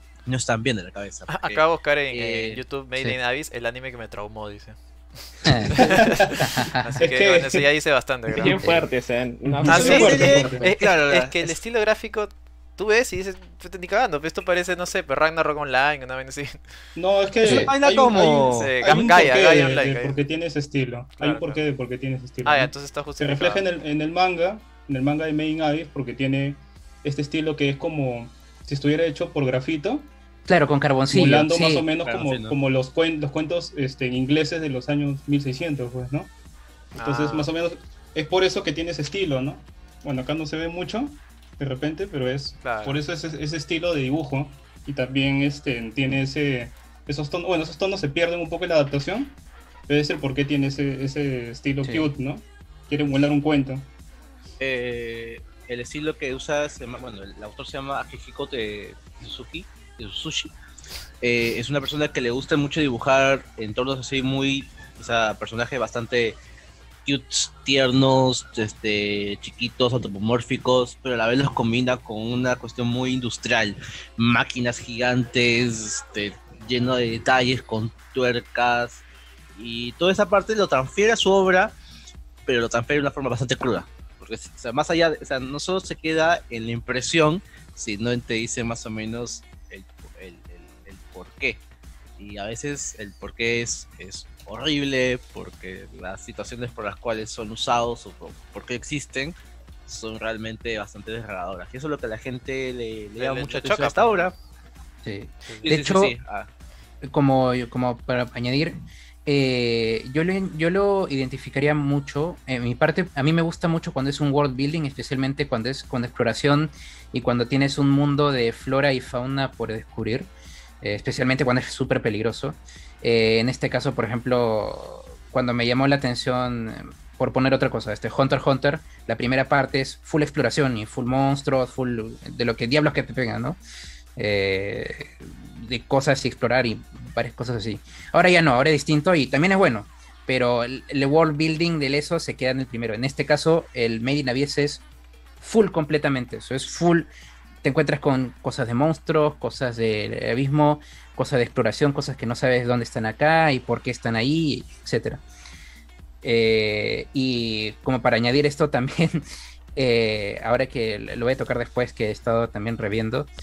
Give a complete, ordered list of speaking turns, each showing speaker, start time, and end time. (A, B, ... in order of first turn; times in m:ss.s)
0:00.2-0:02.6 A
0:01.3-0:08.6 B
0:05.4-0:05.8 C
0:05.8-0:06.4 D
0:06.4-0:06.8 C
0:07.0-0:07.6 D
0:08.3-0:10.2 E
0:08.6-0:08.8 C
0:09.5-0:10.7 D
0:09.7-0:16.6 B
0:09.7-0:11.5 A
0:17.0-0:30.1 D
0:17.4-0:17.7 C
0:17.4-0:18.7 A
0:18.6-0:20.2 B
0:21.2-0:21.6 B
0:22.4-0:23.6 B
0:30.5-0:31.8 C
0:31.1-0:36.3 D
0:32.0-0:32.6 A
0:36.9-0:53.9 D
0:37.0-0:37.5 B
0:42.6-0:43.0 B
0:51.8-0:52.1 C
0:54.6-1:00.5 A
1:01.2-1:06.4 A
1:07.0-1:19.0 A
1:19.6-1:21.7 A
1:22.5-1:31.6 A
1:32.2-1:39.4 A
1:39.9-1:44.3 A
1:43.2-1:44.3 B
1:45.0-1:46.1 C
1:45.4-1:45.7 B
1:45.6-1:46.5 A
1:47.0-2:00.3 C
2:00.8-2:13.6 C
2:14.2-2:24.8 C
2:25.4-2:27.1 C
2:27.6-2:35.2 C
2:36.2-2:43.3 C